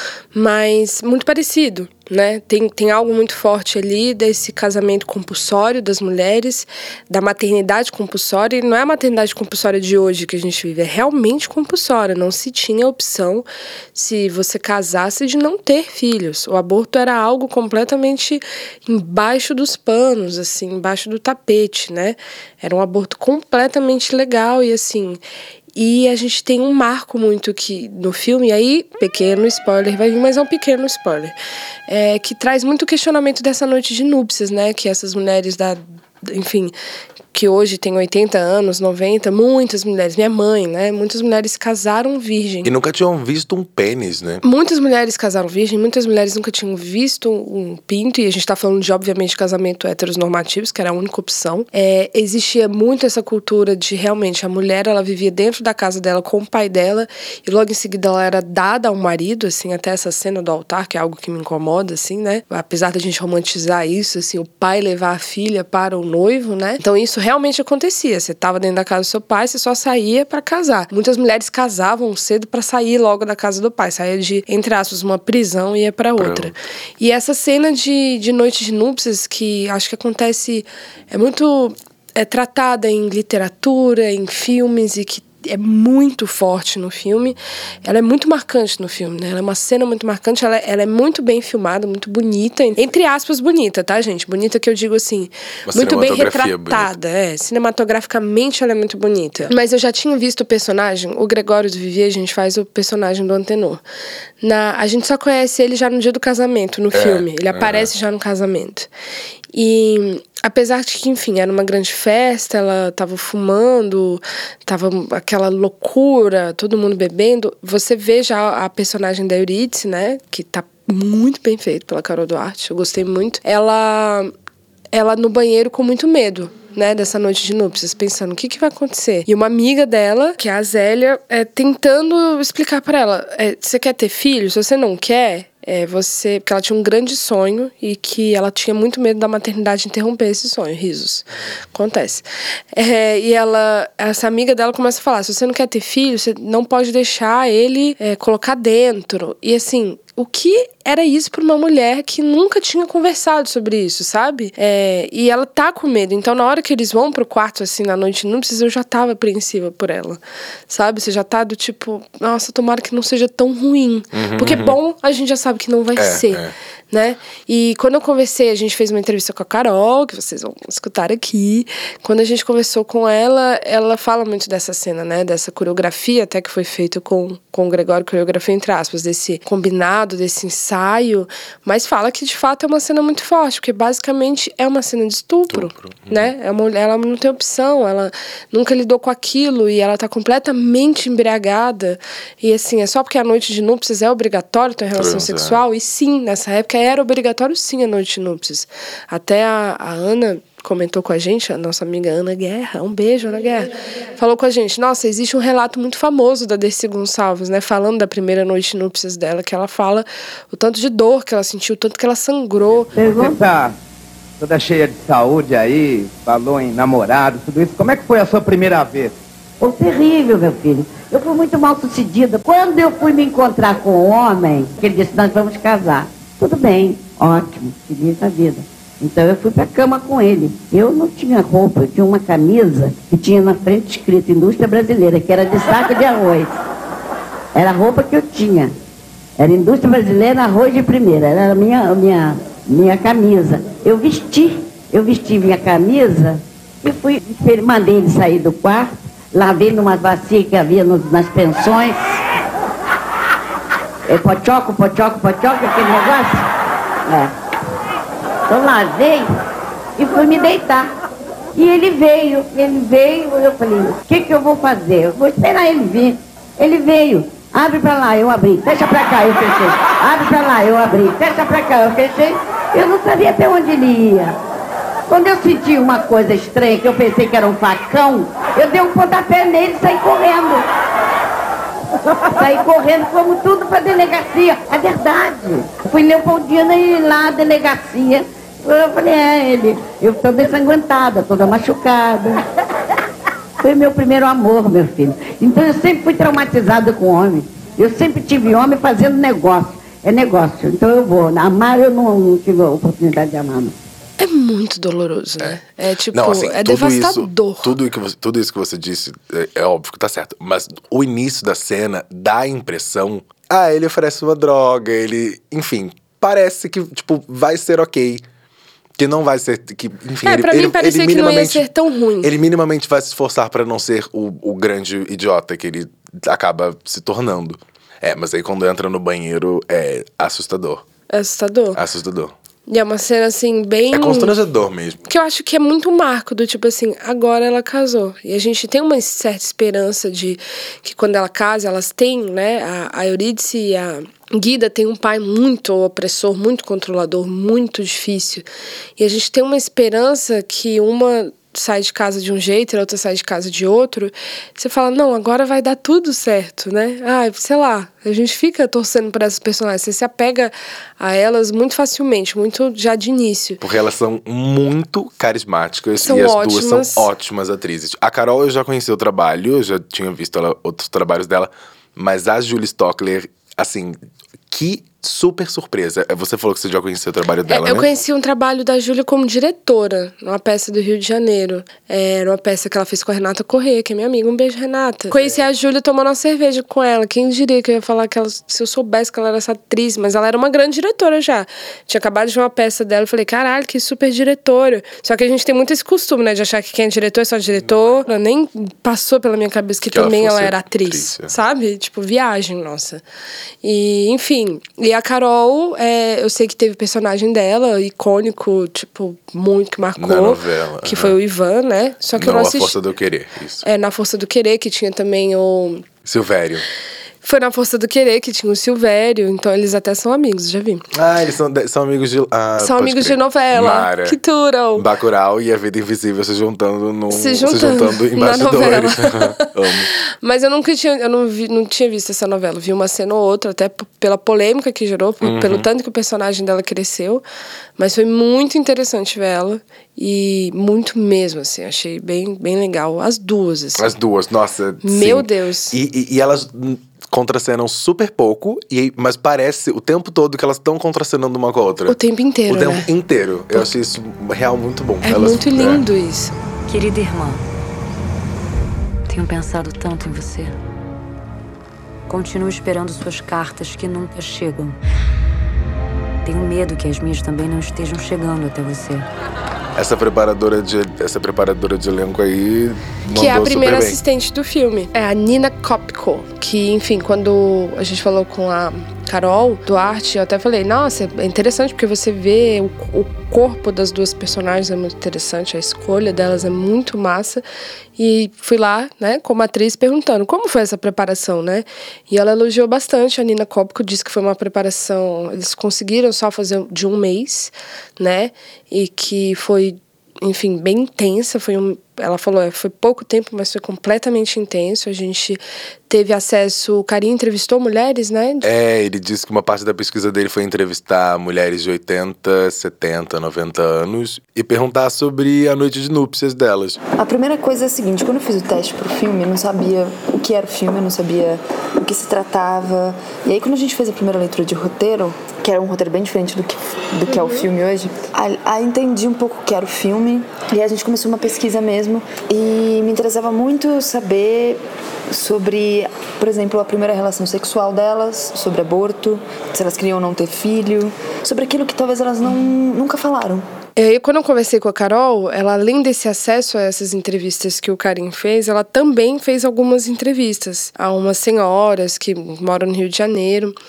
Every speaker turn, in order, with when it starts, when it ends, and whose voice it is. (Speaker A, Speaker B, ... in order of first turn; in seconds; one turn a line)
Speaker A: 0.3-25.2
Speaker A: 25.8-31.4
Speaker A: 31.9-36.7
Speaker A: 37.3-42.7
Speaker B: 42.6-44.4
Speaker A: 44.4-103.8
Speaker B: 76.2-76.5
Speaker B: 95.7-96.9
Speaker A: 104.4-108.9
Speaker B: 106.9-107.9
Speaker A: 109.5-124.3
Speaker A: 124.9-212.9
Speaker B: 164.1-164.8
Speaker B: 166.0-166.5
Speaker B: 185.5-186.3
Speaker B: 195.0-195.6
Speaker C: 212.9-213.4
Speaker D: 213.0-213.7
Speaker D: 214.4-219.1
Speaker C: 219.6-236.5
Speaker C: 237.6-238.7
Speaker C: 239.4-252.2
Speaker C: 254.1-256.5
Speaker C: 257.1-257.3
Speaker C: 258.5-259.3
Speaker C: 260.0-260.9
Speaker C: 261.6-274.4
Speaker C: 275.1-280.7
Speaker C: 282.0-292.4
Speaker C: 293.6-303.8
Speaker A: 304.2-307.7
Speaker B: 306.1-318.2
Speaker B: 319.0-321.7
Speaker A: 320.3-322.3
Speaker B: 322.2-330.8
Speaker A: 331.1-331.8
Speaker B: 331.8-332.3
Speaker A: 332.7-334.3
Speaker B: 333.9-335.0
Speaker A: 335.1-348.5
Speaker A: 349.0-363.6
Speaker B: 363.6-374.0
Speaker A: 366.0-367.1
Speaker B: 374.5-377.9
Speaker A: 377.5-403.0
Speaker B: 399.9-401.3
Speaker A: 403.6-412.8
Speaker B: 410.0-411.2
Speaker B: 412.2-413.6
Speaker A: 413.6-415.9
Speaker B: 416.1-416.6
Speaker A: 417.2-420.8
Speaker B: 420.9-424.2
Speaker A: 422.6-424.9
Speaker B: 424.8-429.9
Speaker A: 427.1-429.4
Speaker A: 430.2-437.2
Speaker B: 435.2-435.7
Speaker A: 437.8-443.9
Speaker B: 443.8-451.9
Speaker A: 444.8-445.7
Speaker A: 451.9-452.9
Speaker B: 452.5-455.8
Speaker A: 455.0-456.3
Speaker E: 456.7-457.4
Speaker E: 459.1-460.6
Speaker E: 462.1-464.8
Speaker E: 466.2-469.1
Speaker B: 469.8-474.0
Speaker A: 473.1-487.4
Speaker A: 488.0-508.5
Speaker B: 508.4-516.8
Speaker F: 517.0-543.5
Speaker A: 527.1-527.4
Speaker A: 543.8-553.5